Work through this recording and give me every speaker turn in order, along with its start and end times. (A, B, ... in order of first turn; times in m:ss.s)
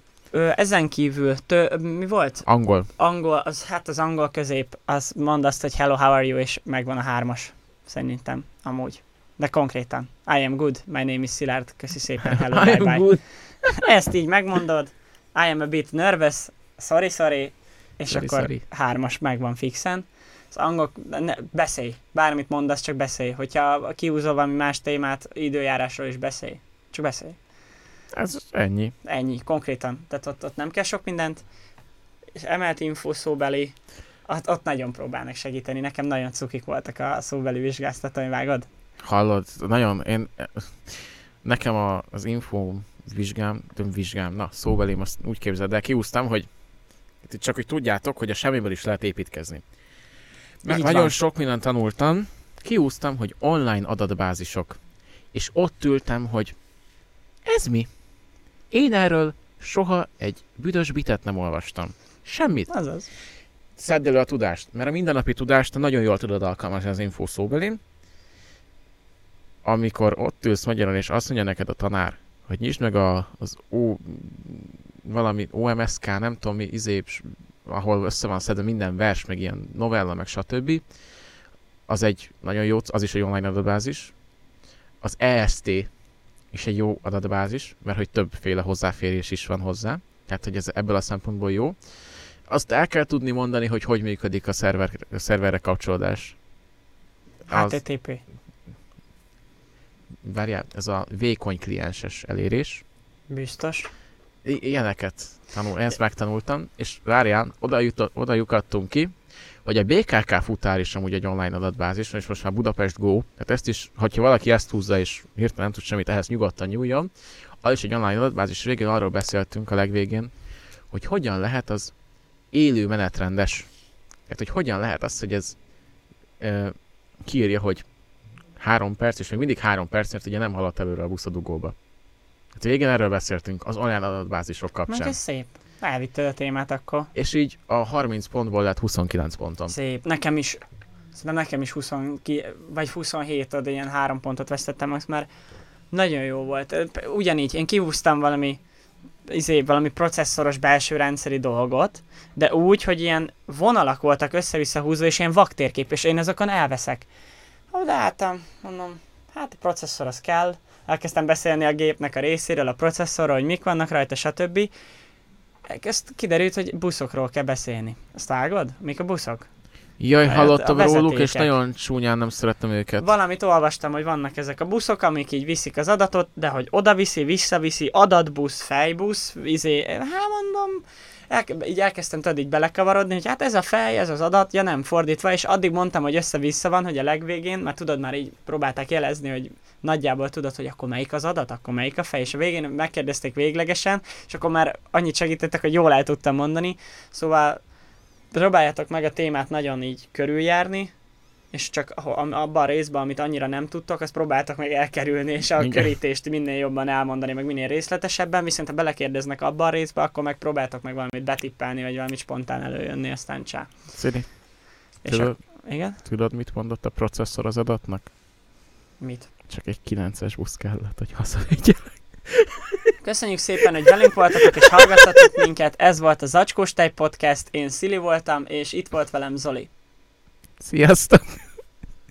0:00.3-0:13.1 A
0:02.5-0:02.9 B
0:12.2-0:13.2 B
0:13.7-0:27.4 A
0:18.1-0:18.6 B
0:28.1-0:28.9 B
0:29.0-0:31.4 A
0:32.4-0:33.8 A
0:34.3-0:38.7 A
0:39.0-0:46.5 B
0:47.2-0:49.6 B
0:50.6-0:54.8 B
0:50.7-0:51.1 A
0:55.3-0:56.6 B
0:57.4-0:57.9 B
0:58.7-1:02.7 B
1:02.7-1:03.1 A
1:03.8-1:07.8 B
1:09.6-1:20.8 B
1:21.9-1:24.1 B
1:25.0-1:25.9 B
1:26.5-1:31.8 B
1:32.5-1:36.4 B
1:37.5-1:37.8 B
1:37.5-1:38.2 A
1:40.2-1:42.8 B
1:43.3-1:43.9 A
1:44.4-1:49.1 B
1:49.6-1:57.1 B
1:57.6-2:00.3 B
2:00.9-2:01.9 B
2:02.5-2:03.7 B
2:04.3-2:05.6 B
2:06.4-2:07.8 B
2:08.6-2:11.8 B
2:12.6-2:15.2 B
2:14.9-2:17.1 A
2:17.1-2:19.7 B
2:19.7-2:20.6 A
2:21.1-2:25.3 A
2:25.9-2:28.6 A
2:29.3-2:37.1 A
2:37.7-2:44.7 A
2:45.7-2:49.5 A
2:50.0-2:53.1 B
2:50.3-2:51.5 A
2:53.0-3:17.6 A
3:18.3-3:20.9 A
3:21.5-3:33.7 A
3:25.6-3:25.9 B
3:33.9-3:34.3 B
3:35.0-3:36.0 A
3:35.1-3:38.1 B
3:39.0-3:39.3 A
3:39.5-3:42.9 B
3:43.0-3:49.7 A
3:43.9-3:45.5 B
3:50.6-3:51.5 B